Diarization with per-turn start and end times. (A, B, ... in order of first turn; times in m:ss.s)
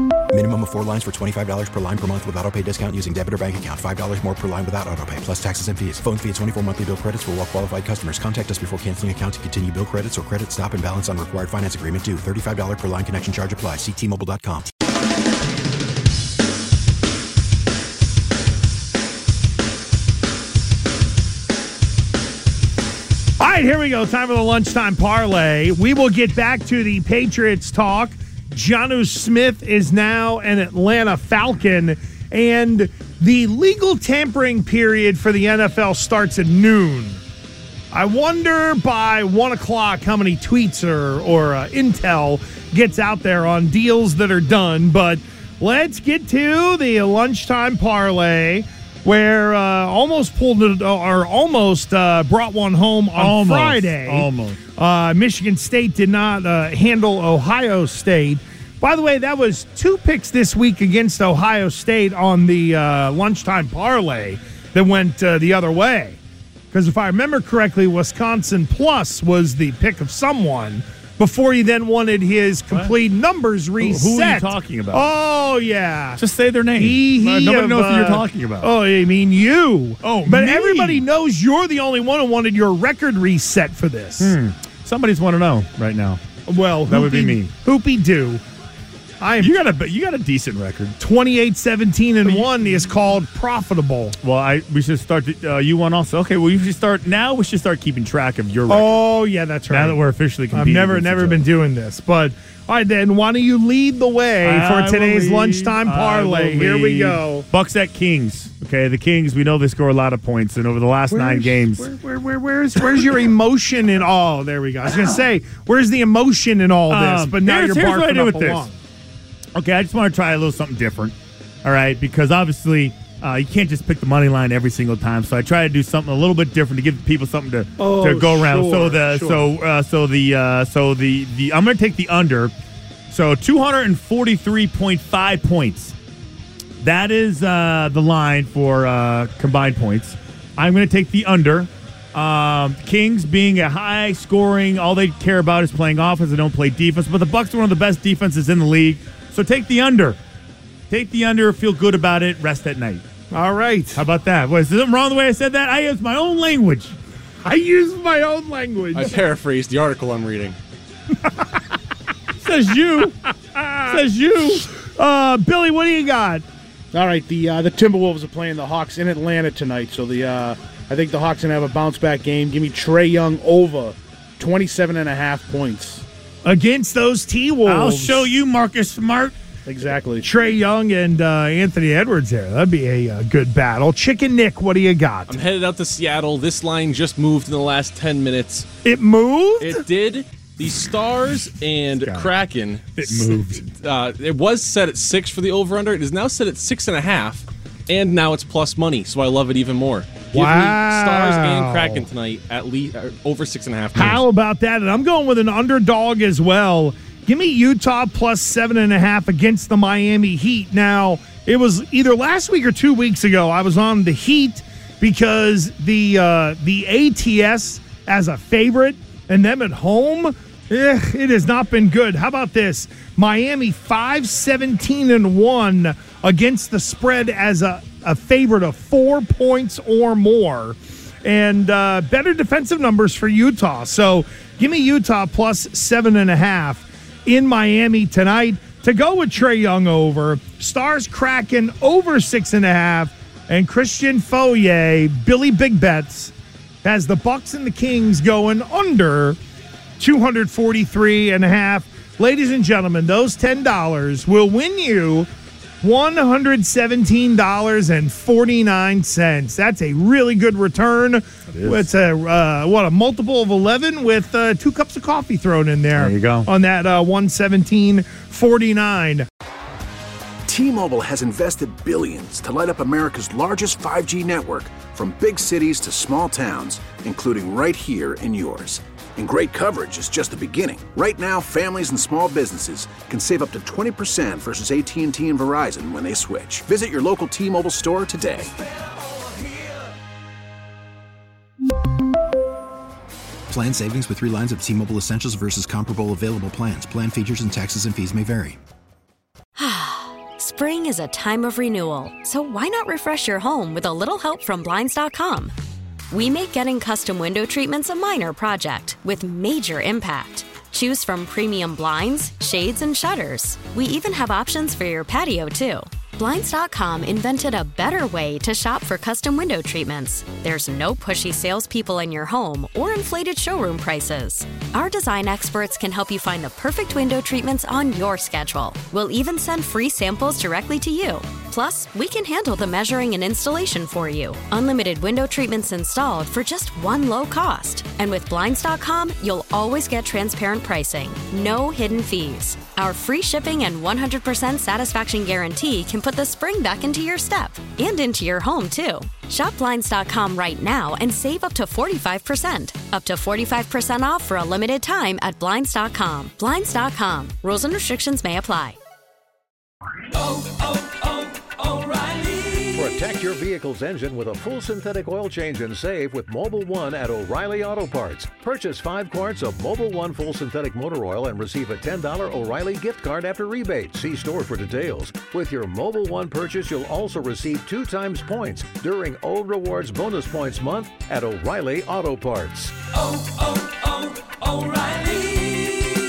0:00.3-0:14.7 A
0:23.4-0:37.2 B
0:37.9-1:06.2 B
0:53.2-0:54.6 C
1:06.7-1:16.2 B
1:12.7-1:13.0 C
1:13.8-1:15.1 C
1:16.2-1:18.7 C
1:16.8-1:24.4 B
1:20.0-1:21.0 C
1:24.2-1:26.2 C
1:26.5-1:28.4 B
1:26.9-1:27.5 C
1:29.2-1:29.6 B
1:29.4-1:30.9 C
1:31.0-1:34.2 B
1:32.2-1:33.0 C
1:34.2-1:39.0 C
1:38.7-1:47.5 B
1:39.7-1:41.4 C
1:44.4-1:51.9 C
1:51.1-1:58.7 B
1:56.9-1:58.7 C
1:59.5-2:12.5 C
2:07.8-2:09.4 B
2:13.1-2:15.9 C
2:16.8-2:30.2 C
2:30.9-2:33.0 C
2:33.3-2:34.0 B
2:33.9-2:37.0 C
2:37.4-2:39.2 B
2:38.9-2:40.6 D
2:42.4-2:43.1 C
2:43.0-2:44.0 B
2:43.9-2:44.6 C
2:44.5-2:46.4 B
2:46.9-2:56.0 E
2:56.4-2:58.3 B
2:57.6-2:59.3 C
2:59.6-3:00.3 E
3:00.2-3:05.4 B
3:05.3-3:08.6 D
3:08.8-3:09.8 B
3:09.6-3:24.2 D
3:13.0-3:13.6 B
3:20.3-3:22.0 B
3:24.0-4:06.3 B
4:06.8-4:09.4 B
4:10.0-4:15.3 B
4:15.8-4:29.2 B
4:21.5-4:21.9 C
4:25.9-4:26.5 C
4:30.4-4:48.5 F
4:53.5-4:58.6 A
4:59.6-5:05.5 G
5:06.1-5:58.8 G
6:02.5-6:22.9 H